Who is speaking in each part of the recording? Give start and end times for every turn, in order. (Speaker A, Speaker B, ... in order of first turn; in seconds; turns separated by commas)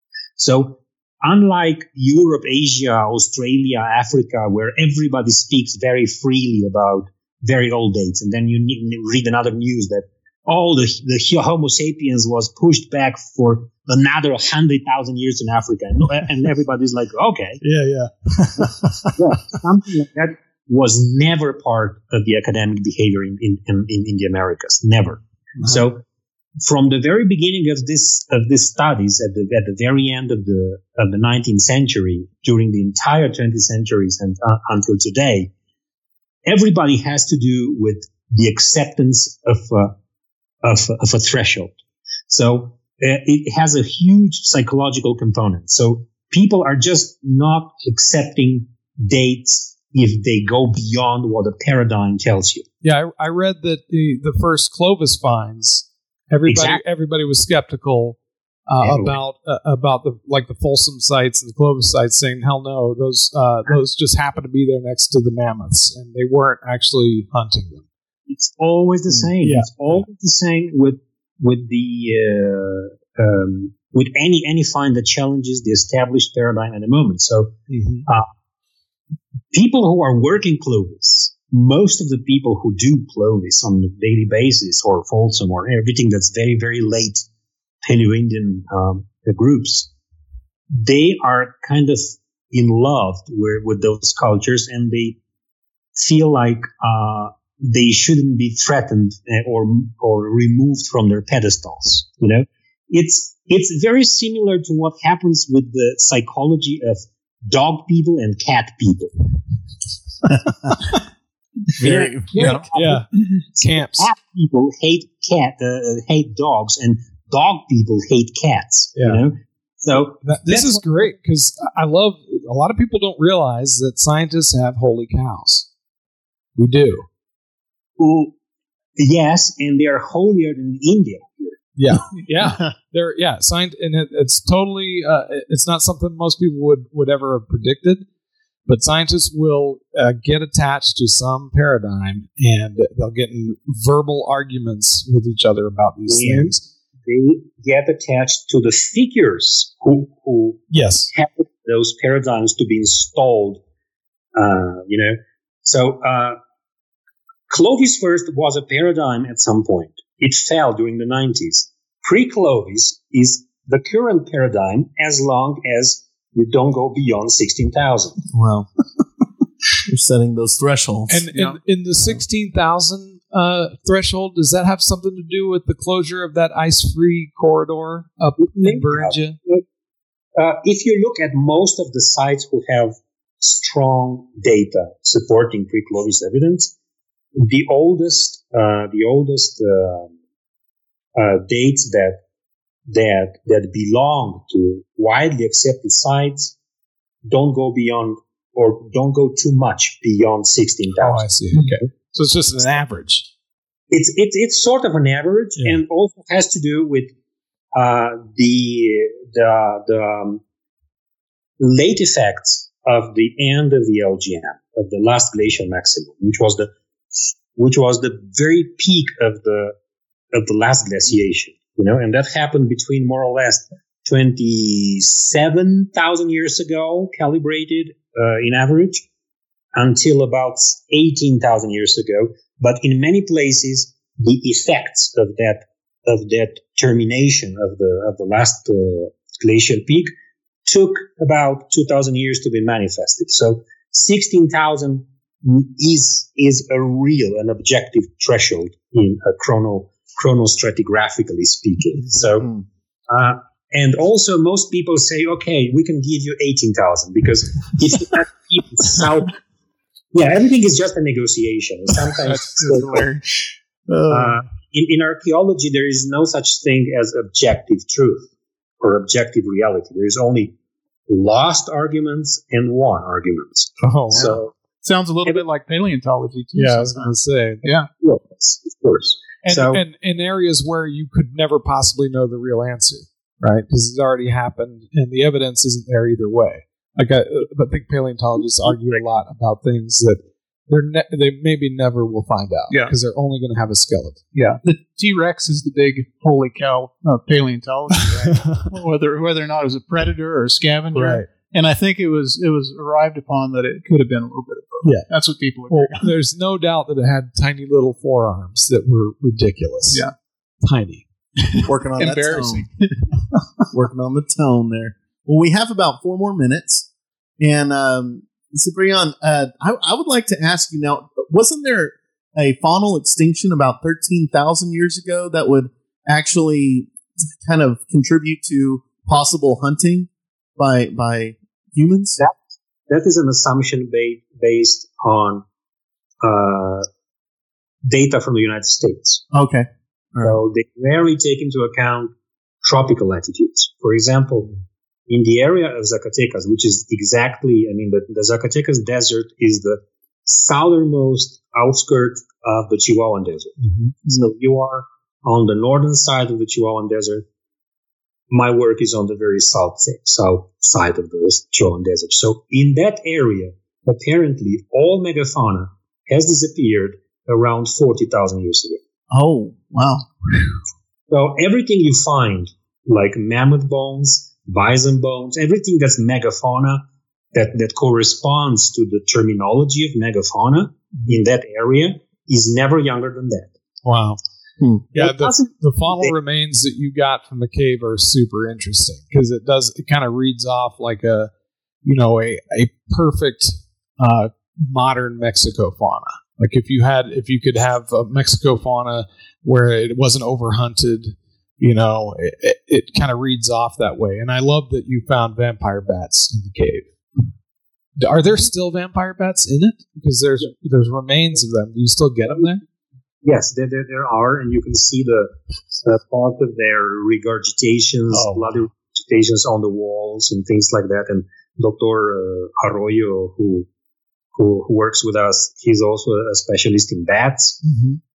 Speaker A: 0.4-17.6, Speaker B: 17.6-19.3, Speaker A: 19.2-26.0, Speaker A: 26.6-35.5, Speaker A: 36.5-39.9, Speaker A: 40.6-41.7, Speaker A: 42.3-52.6, Speaker B: 52.8-67.8, Speaker A: 56.5-56.8, Speaker A: 58.8-59.2, Speaker A: 68.3-77.5, Speaker B: 69.4-69.7, Speaker B: 77.7-78.1, Speaker A: 79.5-87.2, Speaker A: 87.8-89.9, Speaker A: 90.8-95.2, Speaker A: 96.0-109.1, Speaker C: 111.8-112.6, Speaker A: 111.8-113.0, Speaker D: 112.4-112.7, Speaker B: 112.4-114.1, Speaker A: 113.5-121.0, Speaker B: 119.0-119.2, Speaker B: 120.2-125.7, Speaker B: 126.5-127.1, Speaker A: 128.0-128.3, Speaker A: 129.0-131.6, Speaker B: 131.8-138.0, Speaker A: 132.2-132.6, Speaker B: 138.7-146.6, Speaker A: 146.1-153.6, Speaker B: 150.7-151.1, Speaker A: 154.3-156.4, Speaker A: 157.5-168.2, Speaker C: 168.3-168.7, Speaker C: 169.9-171.2, Speaker B: 171.1-179.4, Speaker D: 171.3-171.6, Speaker A: 178.4-179.6, Speaker A: 180.3-186.7, Speaker A: 187.4-190.1, Speaker A: 191.1-192.2, Speaker A: 192.9-196.6, Speaker A: 197.2-201.7, Speaker B: 201.0-203.3, Speaker A: 203.9-207.1, Speaker A: 207.7-210.4, Speaker A: 211.6-216.7, Speaker A: 217.5-219.7, Speaker A: 220.3-229.0, Speaker A: 229.7-240.1, Speaker A: 240.7-252.5, Speaker C: 252.4-252.6, Speaker A: 253.1-259.4, Speaker A: 260.1-263.1, Speaker D: 262.3-263.2, Speaker D: 263.9-264.3, Speaker A: 264.1-268.3, Speaker A: 268.8-270.5, Speaker A: 271.1-274.5, Speaker B: 273.8-274.4, Speaker D: 274.1-277.9, Speaker B: 276.5-277.6, Speaker A: 278.0-279.8, Speaker B: 279.4-294.6, Speaker A: 288.7-288.9, Speaker D: 294.5-306.1, Speaker B: 300.9-301.3, Speaker B: 305.7-310.0, Speaker B: 310.6-311.1, Speaker D: 311.4-312.9, Speaker C: 311.6-312.6, Speaker C: 313.7-316.9, Speaker C: 317.4-332.2, Speaker A: 332.9-335.4, Speaker A: 336.2-336.9, Speaker A: 337.8-339.2, Speaker C: 339.3-340.4, Speaker A: 340.2-342.1, Speaker A: 342.6-344.6, Speaker A: 345.1-357.2, Speaker A: 358.3-368.8, Speaker C: 369.1-370.1, Speaker A: 371.1-383.5, Speaker B: 383.8-384.2, Speaker A: 384.9-386.1, Speaker B: 384.9-391.3, Speaker B: 391.8-406.9, Speaker B: 408.0-412.6, Speaker A: 413.2-423.7, Speaker B: 418.1-418.6, Speaker A: 424.3-427.6, Speaker B: 427.6-428.0